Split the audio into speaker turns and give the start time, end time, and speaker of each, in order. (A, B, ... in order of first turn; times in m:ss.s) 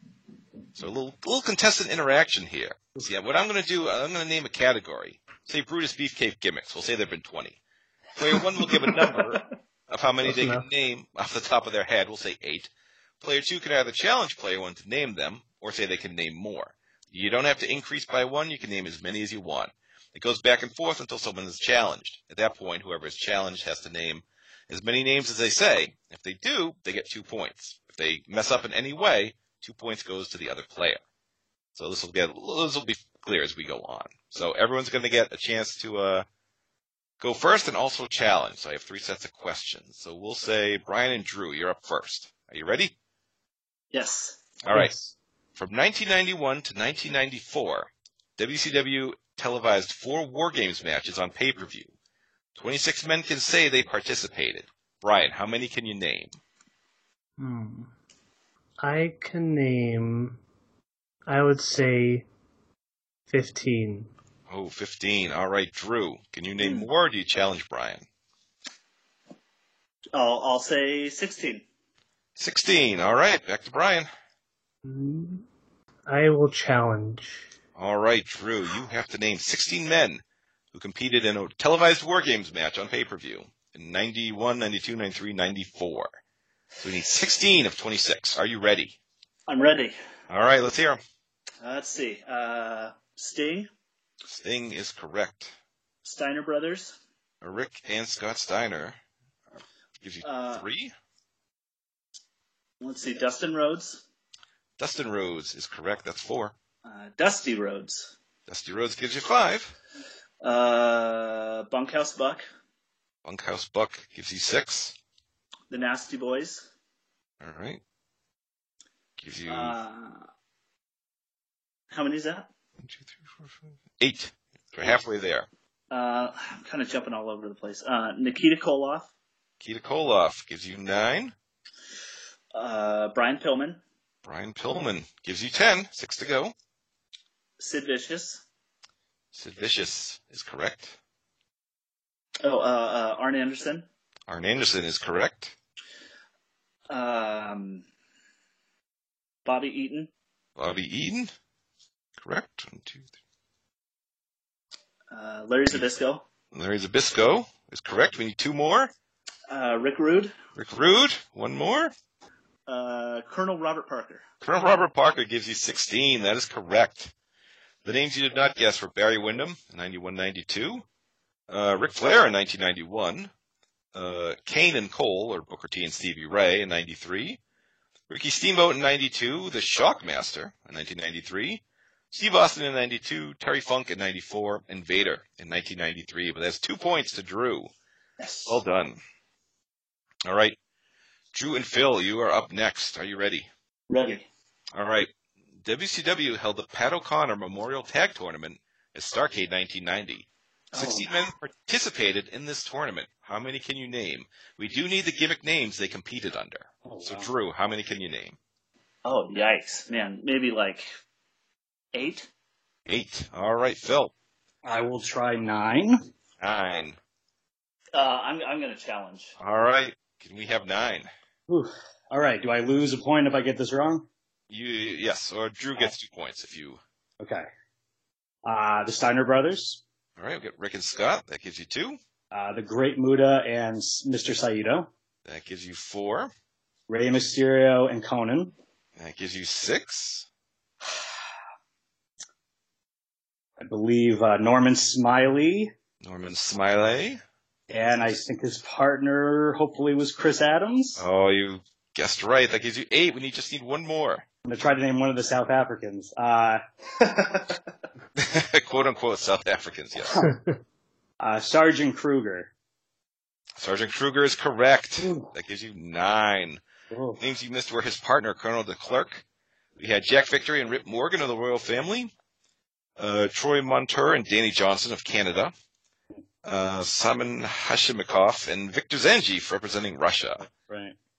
0:00.7-0:07.6 A
0:08.2-0:31.0 A
0:10.2-0:10.6 B
0:31.8-0:36.2 A
0:37.2-0:42.9 A
0:43.9-0:44.4 C
0:44.6-0:44.9 A
0:44.7-0:45.1 B
0:45.6-0:51.9 A
0:52.6-0:56.4 A
0:57.4-0:57.9 B
0:58.8-1:00.4 B
1:01.3-1:02.2 B
1:03.3-1:04.1 B
1:04.5-1:08.0 A
1:06.6-1:06.9 C
1:10.1-1:11.6 C
1:12.4-1:14.1 A
1:14.8-1:15.4 B
1:16.1-1:17.4 B
1:17.8-1:20.2 A
1:20.7-1:26.1 A
1:26.8-1:28.9 A
1:29.5-1:29.9 C
1:30.3-1:31.0 A
1:31.6-1:33.7 C
1:34.3-1:35.5 A
1:36.0-1:37.0 C
1:37.4-1:39.0 A
1:40.0-1:40.9 A
1:40.2-1:40.6 C
1:42.8-1:44.0 C
1:44.8-1:46.5 A
1:46.8-1:48.1 C
1:48.5-1:49.7 A
1:50.4-1:52.4 C
1:53.2-1:54.9 A
1:55.7-1:56.7 C
1:57.4-1:57.8 A
1:59.2-1:59.8 A
1:59.5-2:00.3 C
2:01.9-2:02.5 C
2:02.8-2:05.5 A
2:05.9-2:09.1 C
2:09.6-2:11.3 A
2:12.5-2:13.8 C
2:14.2-2:16.5 A
2:17.6-2:18.4 C
2:19.3-2:21.0 A
2:22.4-2:23.8 C
2:24.3-2:25.5 A
2:26.9-2:27.8 C
2:29.4-2:30.1 C
2:30.6-2:31.3 A
2:32.2-2:33.1 A
2:35.1-2:36.2 C
2:36.5-2:38.9 A
2:39.5-2:40.3 C
2:40.5-2:41.9 A
2:42.7-2:44.2 C
2:44.4-2:47.1 A
2:47.8-2:50.8 A
2:51.5-2:53.3 A
2:53.9-2:57.4 A
2:58.1-3:07.7 A
3:08.2-3:08.6 C
3:08.5-3:09.0 A
3:10.2-3:10.6 A
3:11.3-3:13.5 A
3:13.9-3:14.2 C
3:14.7-3:15.1 A
3:15.6-3:28.4 A
3:20.7-3:21.1 C
3:26.8-3:27.3 D
3:29.0-3:30.9 C
3:31.9-3:32.3 C
3:32.9-3:34.1 A
3:34.6-3:36.0 D
3:36.4-3:37.0 A
3:37.9-3:39.3 C
3:39.4-3:41.1 A
3:41.5-3:44.1 D
3:44.5-3:46.8 A
3:47.2-3:47.4 D
3:48.4-3:49.8 D
3:50.2-3:52.0 A
3:52.3-3:54.9 D
3:55.2-3:56.3 A
3:56.9-3:58.5 D
3:59.0-4:00.3 A
4:03.6-4:05.7 D
4:06.0-4:07.2 A
4:07.7-4:11.0 D
4:11.0-4:14.2 A
4:14.4-4:16.6 D
4:18.2-4:20.2 A
4:21.2-4:22.5 D
4:23.6-4:26.6 A
4:25.0-4:25.3 D
4:26.9-4:27.2 D
4:27.2-4:29.2 A
4:29.8-4:32.1 A
4:33.0-4:35.5 A
4:36.4-4:40.5 A
4:40.7-4:41.0 D